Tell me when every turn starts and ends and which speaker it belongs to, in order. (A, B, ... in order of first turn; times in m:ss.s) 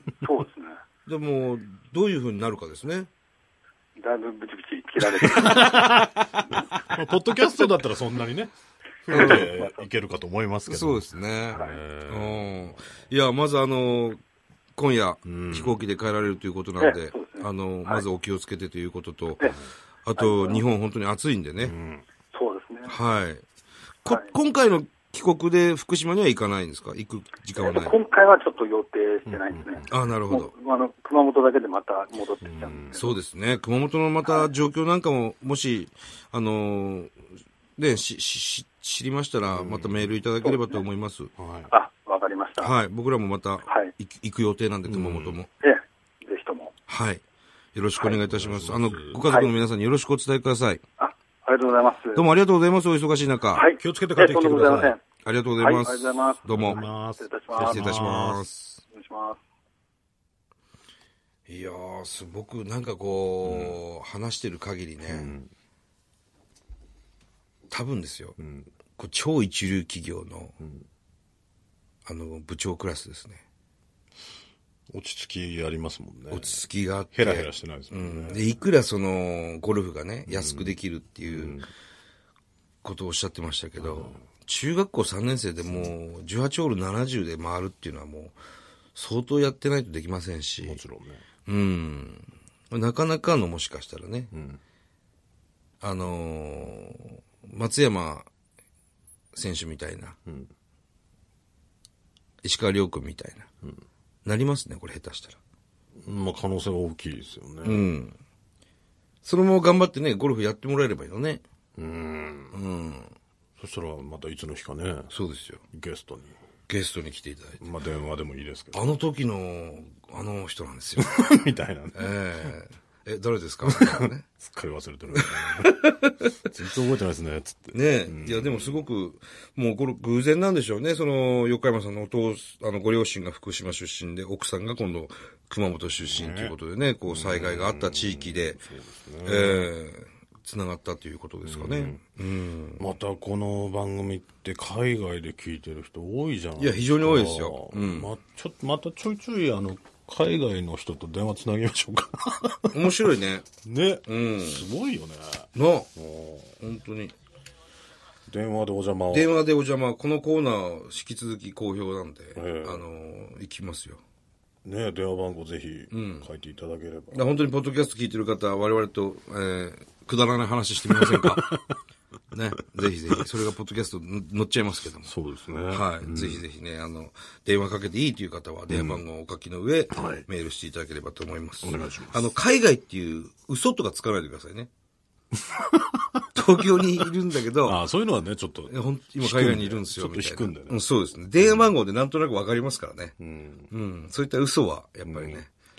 0:00.2-0:00.8 A
0:01.0-0:03.1 B
0:04.0-0:06.0 A
0:05.0-0:08.5 C
0:09.0-0:13.0 C
0:09.1-0:09.5 B
0:09.1-0:09.8 A
0:10.7-0:14.2 B
0:11.5-0:11.8 A
0:14.7-0:21.7 B
0:15.2-0:15.8 C
0:16.8-0:18.0 A
0:20.2-0:20.6 A
0:21.6-0:22.0 C
0:22.3-0:22.9 A
0:22.9-0:23.4 B
0:24.0-0:27.9 B
0:27.6-0:33.2 A
0:29.2-0:30.0 C
0:29.9-0:30.5 B
0:32.4-0:33.0 C
0:32.9-0:37.2 B
0:34.2-0:34.5 A
0:37.8-0:41.3 B
0:39.5-0:40.2 C
0:40.4-0:40.8 A
0:41.4-0:41.7 C
0:41.7-0:42.7 A
0:42.6-0:45.5 B
0:44.9-0:45.4 C
0:45.6-0:46.7 A
0:46.9-0:47.2 B
0:47.7-0:50.8 B
0:48.3-0:49.2 C
0:49.2-0:49.5 A
0:51.0-0:52.2 A
0:52.1-0:53.6 B
0:53.5-0:55.0 A
0:53.8-0:55.0 C
0:55.2-0:56.8 B
0:55.6-0:58.0 A
0:56.5-0:58.5 C
0:57.6-0:58.8 B
0:58.9-0:59.4 A
1:01.5-1:05.3 B
1:03.4-1:03.8 C
1:05.0-1:05.5 C
1:07.7-1:08.4 B
1:08.4-1:08.7 C
1:09.0-1:10.5 B
1:10.6-1:10.8 C
1:12.0-1:13.4 B
1:14.9-1:16.6 C
1:16.3-1:21.6 B
1:17.1-1:18.4 C
1:20.3-1:20.8 C
1:21.3-1:21.7 C
1:22.8-1:28.4 B
1:23.8-1:24.2 C
1:28.9-1:30.8 B
1:30.6-1:31.2 C
1:31.4-1:34.3 B
1:34.3-1:34.6 C
1:35.8-1:38.3 B
1:39.3-1:40.2 B
1:42.4-1:43.5 B
1:44.2-1:45.4 B
1:46.0-1:47.8 C
1:47.6-1:48.2 B
1:49.2-1:51.4 B
1:51.8-1:52.6 C
1:52.5-1:53.1 B
1:53.6-1:55.1 C
1:55.1-1:55.6 B
1:55.7-1:56.4 C
1:56.7-1:57.6 B
1:57.6-1:58.8 C
1:58.7-2:01.4 B
2:01.0-2:02.5 C
2:01.9-2:04.3 B
2:03.6-2:05.8 C
2:05.1-2:06.5 B
2:06.4-2:08.8 C
2:07.7-2:18.6 B
2:16.0-2:16.6 C
2:17.1-2:19.7 C
2:19.2-2:22.9 B
2:21.4-2:22.0 C
2:22.8-2:32.9 C
2:26.6-2:28.1 B
2:32.7-2:33.5 B
2:33.6-2:36.5 C
2:34.1-2:34.6 B
2:35.5-2:35.9 B
2:36.6-2:37.1 B
2:38.3-2:39.3 C
2:39.1-2:44.0 B
2:42.3-2:42.8 C
2:44.6-2:47.2 C
2:45.9-2:46.3 B
2:47.1-2:51.6 B
2:50.9-2:51.6 C
2:52.3-2:55.1 B
2:55.0-2:56.4 C
2:55.7-3:04.7 B
2:58.7-2:59.0 C
2:59.9-3:00.2 C
3:01.6-3:02.3 C
3:05.3-3:06.2 C
3:06.3-3:07.8 B
3:07.6-3:10.8 C
3:08.7-3:13.1 B
3:11.4-3:11.7 C
3:13.2-3:13.7 C
3:13.7-3:15.5 B
3:15.0-3:15.4 C